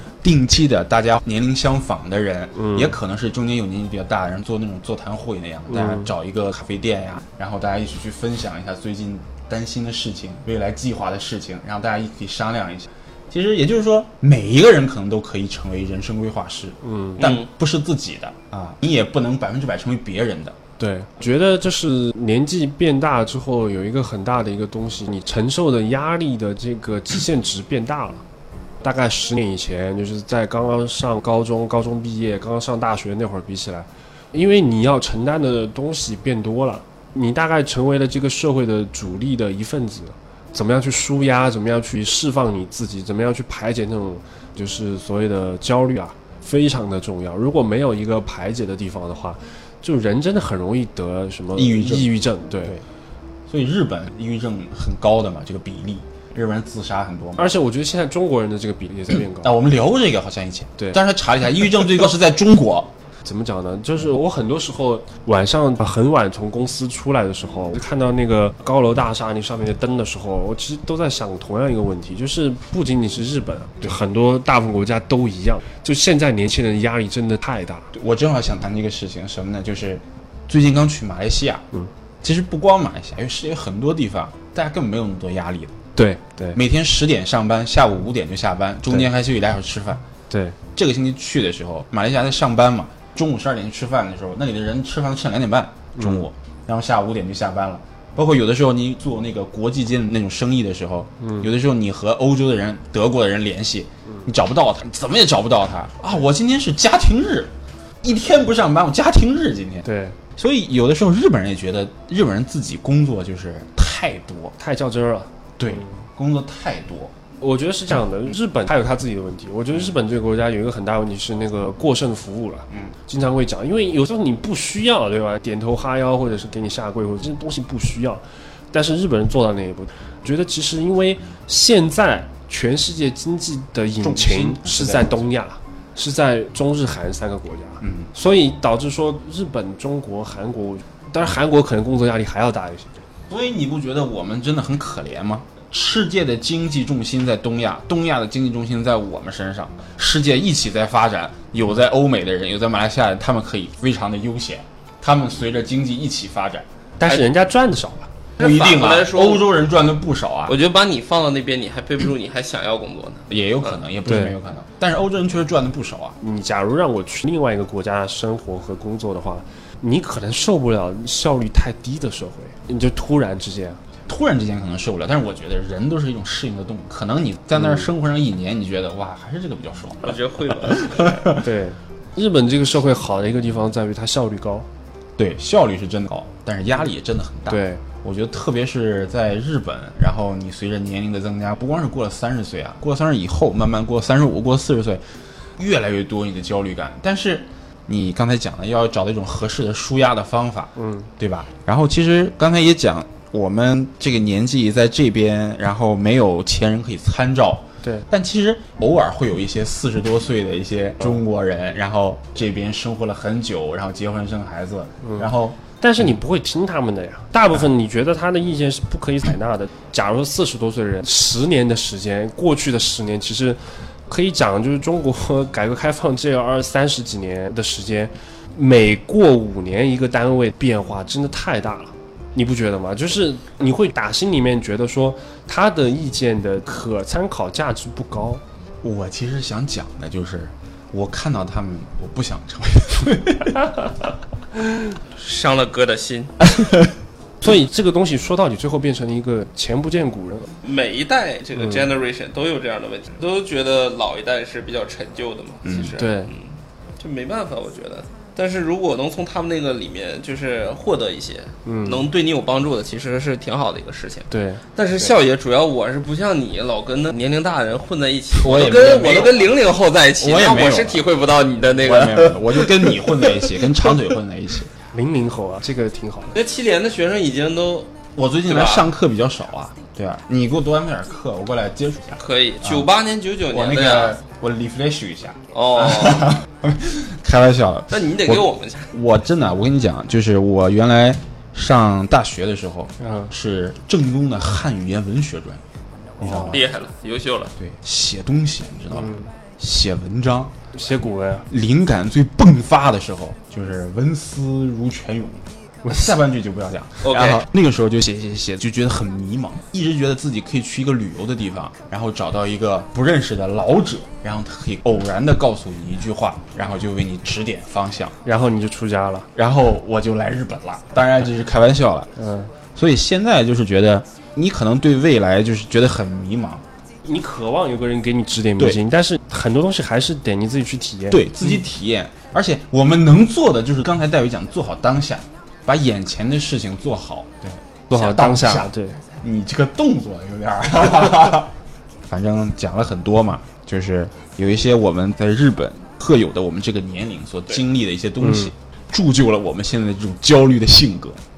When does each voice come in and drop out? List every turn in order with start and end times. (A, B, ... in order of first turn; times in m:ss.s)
0:00.2-0:20.6 A
0:02.6-0:02.9 B
0:05.7-0:06.1 B
0:16.8-0:17.2 B
0:17.2-0:17.5 C
0:20.8-0:28.2 B
0:28.8-0:52.8 B
0:51.6-0:52.8 A
0:53.5-0:57.5 A
0:57.4-0:59.6 B
0:59.4-1:02.9 A
1:03.2-1:17.9 B
1:17.9-1:21.6 A
1:22.2-1:25.8 A
1:26.0-1:26.6 B
1:26.5-1:30.0 A
1:30.3-1:30.6 B
1:30.8-1:47.5 A
1:36.0-1:36.3 B
1:41.2-1:41.5 B
1:48.0-1:49.8 A
1:49.8-1:50.2 B
1:50.4-1:54.5 A
1:54.6-1:56.0 B
1:55.6-1:57.1 A
1:57.4-2:23.0 B
2:02.7-2:03.0 A
2:14.0-2:15.2 A
2:17.8-2:18.1 A
2:23.3-2:36.7 A
2:37.0-2:38.1 B
2:38.4-2:39.5 C
2:38.4-2:40.6 A
2:40.5-2:43.8 C
2:43.3-2:46.2 A
2:44.0-2:44.4 B
2:46.2-2:53.8 B
2:54.1-3:01.4 A
2:57.6-2:57.9 B
3:00.0-3:01.2 C
3:01.4-3:04.7 B
3:05.2-3:15.0 A
3:07.5-3:07.8 B
3:15.6-3:35.6 A
3:20.8-3:21.1 B
3:35.0-3:35.3 B
3:35.8-3:58.4 B
3:58.8-4:03.8 A
4:05.0-4:06.4 C
4:07.4-4:10.5 B
4:10.6-4:33.1 C
4:15.6-4:16.0 A
4:16.0-4:16.3 B
4:21.6-4:22.1 B
4:24.3-4:24.7 B
4:28.4-4:29.6 A
4:30.2-4:31.1 A
4:31.8-4:34.7 A
4:34.9-4:36.4 B
4:36.4-4:37.9 C
4:38.2-4:42.9 A
4:38.5-4:38.9 C
4:42.2-4:44.2 C
4:43.5-4:55.6 A
4:45.5-4:46.4 C
4:47.9-4:48.9 C
4:53.0-4:53.3 B
4:56.2-4:56.7 A
4:56.2-4:56.5 B
4:56.3-4:57.5 C
4:57.6-5:00.6 A
4:58.9-4:59.3 B
5:00.7-5:01.5 B
5:01.5-5:18.2 A
5:07.0-5:07.4 C
5:18.2-5:19.3 B
5:19.4-5:22.1 A
5:22.2-5:22.5 B
5:22.8-5:26.6 A
5:27.0-5:31.5 B
5:31.1-5:41.5 A
5:37.9-5:39.0 B
5:42.1-5:51.2 A
5:48.2-5:48.5 B